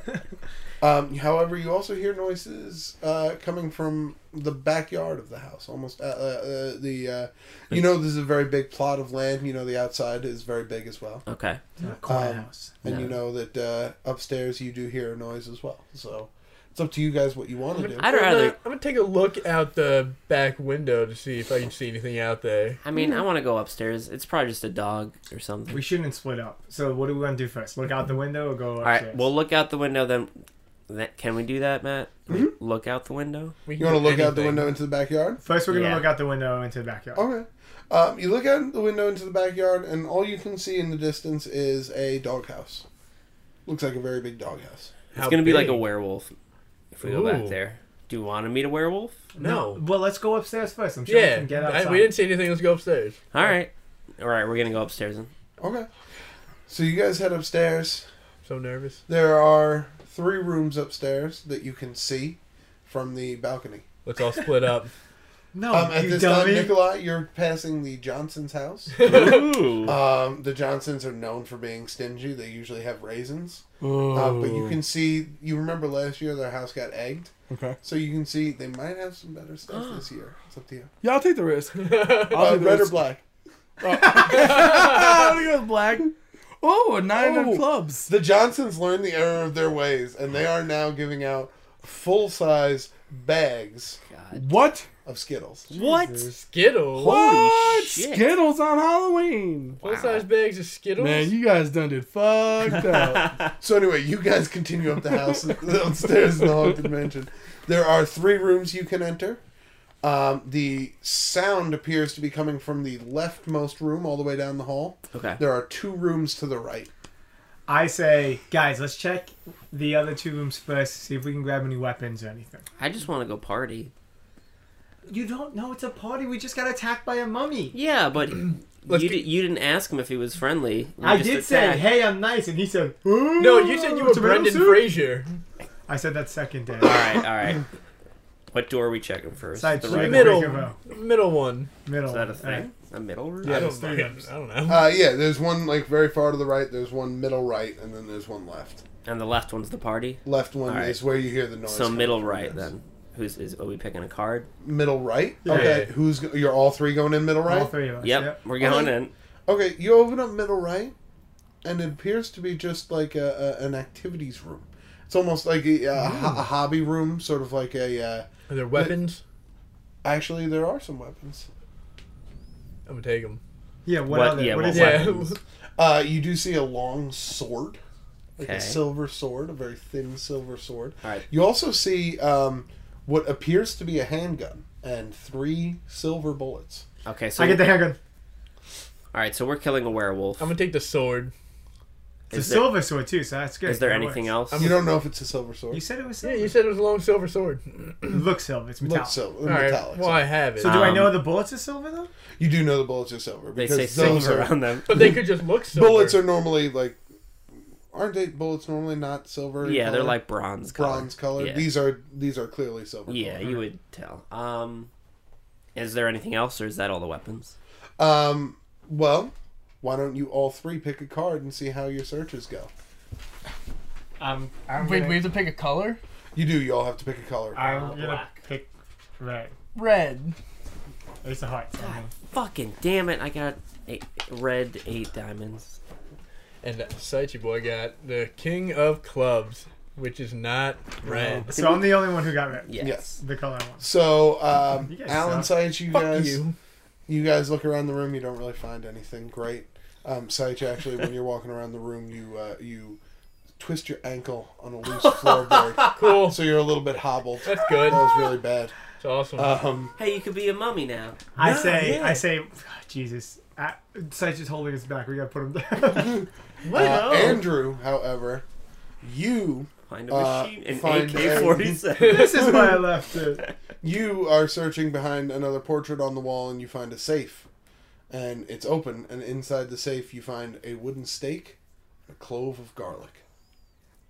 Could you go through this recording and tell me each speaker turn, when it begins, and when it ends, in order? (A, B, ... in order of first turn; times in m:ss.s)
0:00.8-0:11.2 A
0:11.2-0:11.6 B
0:11.8-0:12.7 C
0:12.0-0:18.1 A
0:12.8-0:13.1 B
0:17.7-0:22.8 D
0:18.0-0:18.6 B
0:22.8-0:25.8 B
0:25.7-0:29.2 C
0:28.8-0:33.5 B
0:32.3-0:32.5 A
0:33.7-0:34.7 D
0:33.8-0:35.4 A
0:35.4-0:37.2 C
0:35.7-0:36.1 B
0:37.2-0:42.8 A
0:43.6-0:44.9 A
0:45.1-0:45.8 D
0:45.1-0:46.3 B
0:46.9-0:49.1 B
0:47.0-0:47.6 D
0:49.4-0:52.1 C
0:49.4-0:49.8 D
0:51.1-0:53.5 D
0:53.3-0:55.3 B
0:55.6-0:55.9 A
0:56.7-0:58.1 A
0:58.4-0:59.0 D
0:59.1-1:03.8 A
1:04.0-1:04.9 D
1:05.5-1:06.8 C
1:05.7-1:20.9 A
1:09.0-1:09.5 D
1:09.0-1:10.0 B
1:13.8-1:14.8 E
1:17.5-1:17.8 E
1:19.7-1:20.0 B
1:21.0-1:23.1 E
1:21.8-1:22.4 D
1:22.3-1:23.2 A
1:23.8-1:28.1 E
1:24.1-1:25.3 D
1:27.1-1:34.0 A
1:34.1-1:34.5 B
1:34.3-1:34.9 E
1:35.0-1:35.7 A
1:35.7-1:36.3 B
1:35.7-1:36.4 C
1:36.4-1:37.4 D
1:36.9-1:38.3 B
1:37.0-1:39.8 E
1:39.8-1:40.2 B
1:39.8-1:41.3 D
1:41.0-1:43.4 E
1:42.9-1:43.5 B
1:43.6-1:49.4 A
1:50.0-1:56.9 A
1:55.1-1:55.4 B
1:57.7-2:02.6 C
2:02.8-2:03.9 B
2:05.1-2:07.8 C
2:07.7-2:12.0 B
2:08.9-2:09.3 D
2:11.0-2:15.0 C
2:13.4-2:15.4 D
2:15.9-2:17.2 C
2:16.8-2:17.6 B
2:18.5-2:20.5 B
2:19.5-2:20.8 C
2:19.9-2:21.7 D
2:21.8-2:22.7 C
2:22.0-2:23.7 B
2:23.4-2:24.3 C
2:23.4-2:25.0 D
2:24.6-2:28.8 A
2:29.0-2:31.0 B
2:30.2-2:32.7 A
2:31.6-2:34.5 B
2:34.6-2:37.7 A
2:35.4-2:35.8 C
2:35.5-2:35.9 D
2:37.4-2:38.4 C
2:38.0-2:39.1 B
2:38.6-2:38.9 A
2:39.5-2:40.9 A
2:41.6-2:48.9 A
2:48.5-2:49.2 D
2:50.0-2:51.5 A
2:52.8-2:53.4 D
2:53.8-2:55.3 C
2:54.1-2:55.2 B
2:54.7-2:55.4 D
2:55.8-2:57.8 A
2:58.4-2:58.8 B
2:58.4-3:06.8 A
3:07.0-3:07.7 B
3:07.4-3:08.0 C
3:09.1-3:10.5 B
3:10.4-3:11.3 D
3:12.3-3:12.8 B
3:12.3-3:14.3 C
3:13.6-3:14.7 B
3:14.5-3:14.8 D
3:14.6-3:15.8 A
3:15.7-3:16.5 C
3:16.2-3:18.2 D
3:18.1-3:19.2 C
3:18.8-3:20.3 A
3:19.4-3:21.2 D
3:20.6-3:22.1 C
3:20.6-3:21.2 B
3:22.4-3:25.1 A
3:23.6-3:25.0 B
3:24.9-3:26.2 D
3:25.7-3:27.0 A
3:27.9-3:30.2 A
3:29.6-3:31.7 B
3:30.7-3:33.6 A
3:33.1-3:34.9 B
3:35.7-3:37.6 B
3:38.0-3:42.7 A
3:44.2-3:45.3 C
3:44.8-3:46.0 D
3:46.3-3:47.6 A
3:47.5-3:49.5 C
3:47.6-3:48.3 B
3:49.7-3:50.4 D
3:51.2-3:52.1 C
3:51.8-3:55.8 B
3:56.6-4:01.6 D
4:01.1-4:01.4 A
4:01.5-4:03.8 C
4:01.5-4:01.9 B
4:02.6-4:03.1 B
4:02.8-4:03.1 A
4:03.8-4:06.4 A
4:04.9-4:05.5 C
4:05.9-4:06.5 D
4:07.1-4:13.0 A
4:13.6-4:18.7 A
4:15.3-4:15.9 B
4:16.0-4:16.4 D
4:17.4-4:18.0 D
4:19.0-4:19.5 D
4:19.4-4:19.9 A
4:20.0-4:22.2 B
4:21.4-4:26.3 C
4:21.5-4:22.0 D
4:25.9-4:28.4 A
4:26.6-4:27.4 D
4:26.7-4:27.4 B
4:29.0-4:32.8 A
4:29.9-4:32.5 B
4:32.0-4:33.4 C
4:32.1-4:32.5 D
4:33.8-4:37.5 A
4:38.1-4:41.6 A
4:42.1-4:43.2 A